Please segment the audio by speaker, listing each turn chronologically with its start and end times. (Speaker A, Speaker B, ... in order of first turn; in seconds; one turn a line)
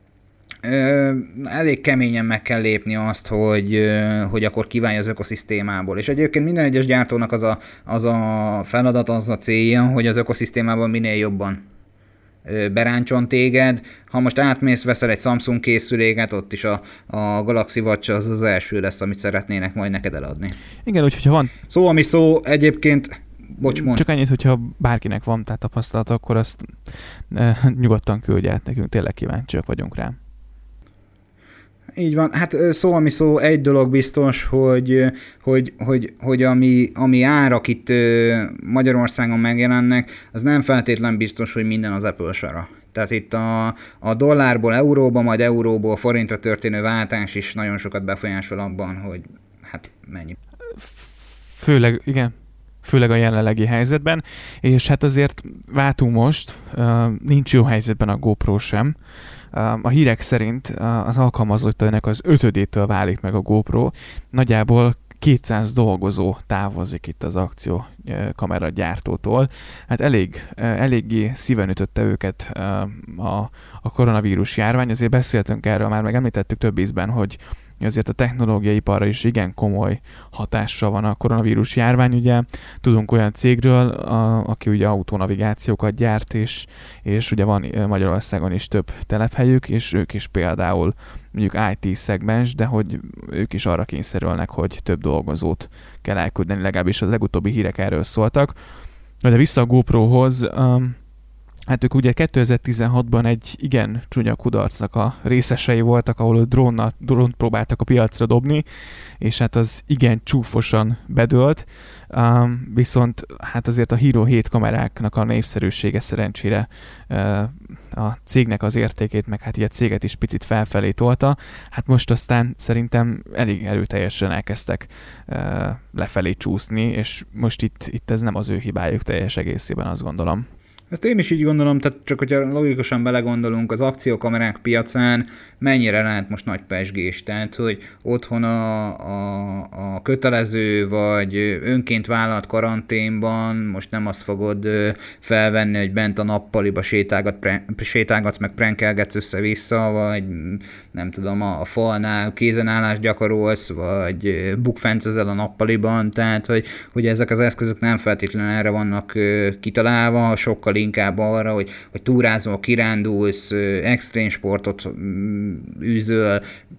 Speaker A: 0.6-11.6
Speaker A: 12.4-20.6
Speaker B: 20.8-21.5
Speaker A: 21.7-24.0
Speaker B: 23.6-30.2
Speaker A: 31.9-50.4
Speaker B: 50.7-58.9
Speaker B: 59.5-98.5
Speaker B: 99.2-101.0
Speaker B: 101.7-108.6
Speaker B: 109.2-130.4
Speaker A: 130.9-166.4